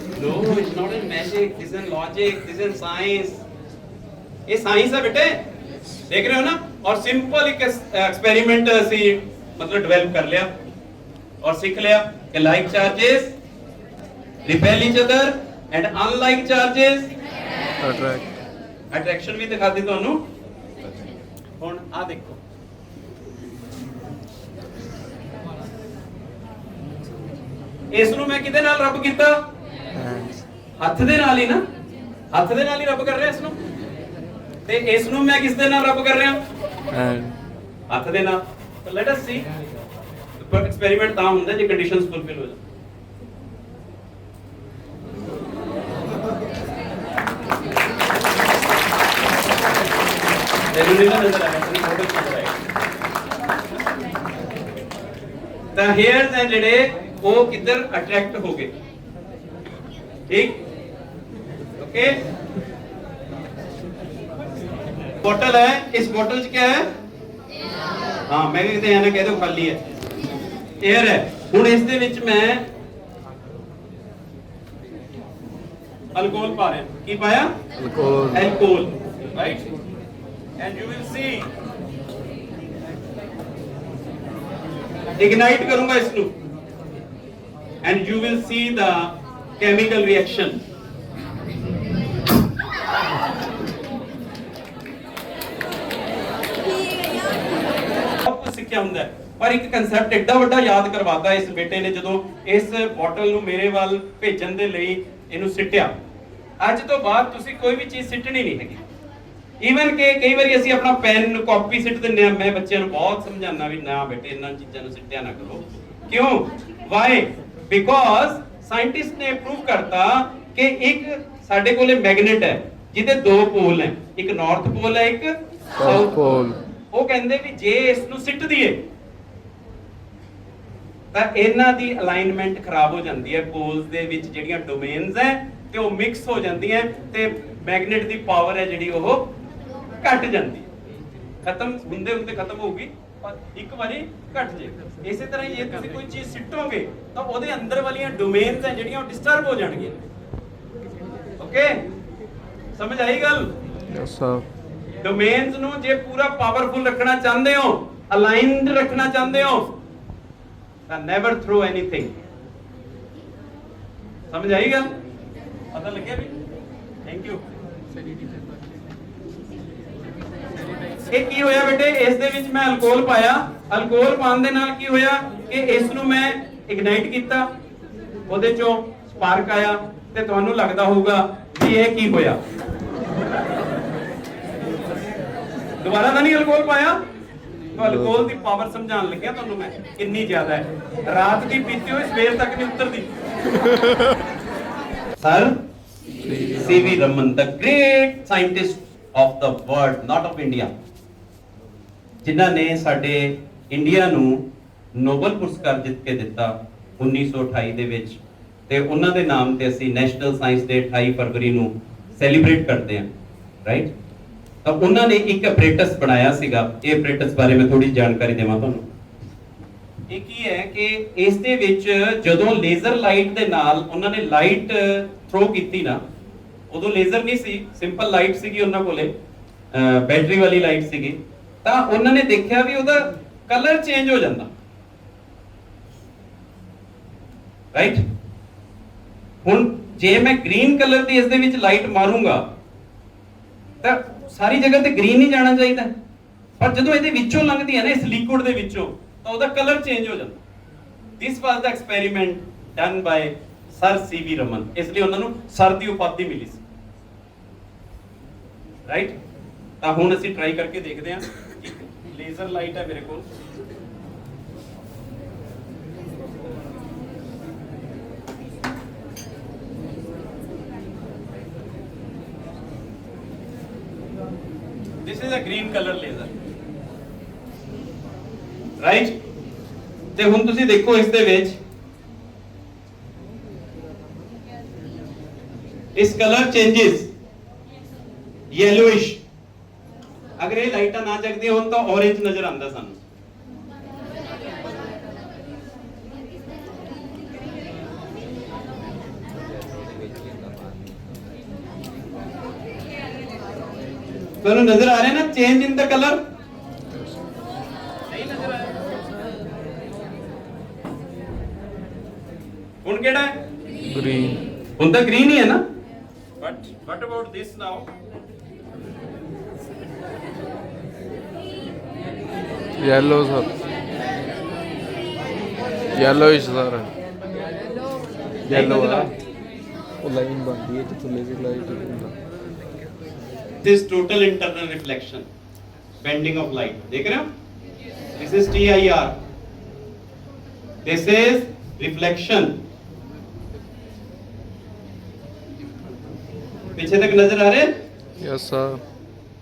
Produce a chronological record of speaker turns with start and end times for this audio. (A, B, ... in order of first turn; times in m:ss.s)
0:00.2-0:03.4 A
0:04.5-0:05.4 A
0:06.1-0:10.5 A
0:11.4-0:13.3 A
0:14.4-0:17.1 A
0:17.8-0:18.3 B
0:18.9-0:20.2 A
0:21.6-0:22.4 A
0:27.9-0:29.3 A
0:30.0-0:30.4 B
0:30.8-0:31.6 A
0:32.3-0:33.6 A
0:34.6-0:36.4 A
0:36.9-0:37.4 B
0:37.9-0:39.4 A
0:40.4-0:42.6 A
0:50.7-0:52.6 A
0:55.7-0:58.7 A
1:00.3-1:00.6 A
1:01.8-1:02.2 A
1:05.2-1:06.8 A
1:08.3-1:09.8 A
1:10.8-1:12.6 A
1:16.1-1:17.5 A
1:17.8-1:18.5 B
1:18.3-1:19.6 A
1:20.6-1:21.5 A
1:25.2-1:26.3 A
1:27.8-1:30.6 A
1:38.2-1:45.9 A
1:46.6-1:48.8 A
1:49.6-2:06.4 A
2:05.8-2:06.6 B
2:06.9-2:08.8 A
2:11.1-2:19.2 A
2:20.0-2:20.7 A
2:21.4-2:30.0 A
2:31.4-2:31.8 A
2:32.8-2:33.5 A
2:33.9-2:34.4 B
2:35.0-2:39.7 A
2:40.9-2:42.1 A
2:44.3-2:44.9 A
2:45.7-2:46.3 A
2:47.0-2:47.4 A
2:51.1-2:57.4 A
2:58.3-3:02.4 A
3:05.8-3:07.0 A
3:07.7-3:13.0 A
3:07.8-3:08.2 B
3:15.2-3:15.5 A
3:16.2-3:17.0 B
3:16.6-3:20.7 A
3:22.2-3:24.4 A
3:25.0-3:33.1 A
3:34.6-3:38.9 A
3:40.1-3:46.0 A
3:46.7-3:49.1 A
3:49.7-3:54.5 A
3:57.7-3:58.0 A
3:59.4-4:02.4 A
4:03.8-4:05.9 A
4:06.6-4:10.4 A
4:11.2-4:16.6 A
4:18.9-4:19.1 A
4:19.8-4:23.2 A
4:35.0-4:36.3 A
4:38.8-4:39.1 A
4:40.2-4:41.6 A
4:46.0-4:47.1 A
4:48.5-4:49.2 A
4:50.4-4:53.0 A
5:04.4-5:06.2 A
5:08.1-5:08.7 A
5:12.8-5:13.3 A
5:13.8-5:14.4 B
5:14.8-5:15.6 A
5:16.4-5:17.9 A
5:22.8-5:23.5 B
5:25.9-5:26.9 B
5:28.5-5:29.1 B
5:28.5-5:29.1 A
5:30.0-5:32.1 B
5:33.6-5:35.2 A
5:36.0-5:37.2 A
5:38.2-5:39.1 A
5:40.8-5:42.5 A
5:46.8-5:47.7 A
5:48.2-5:48.8 B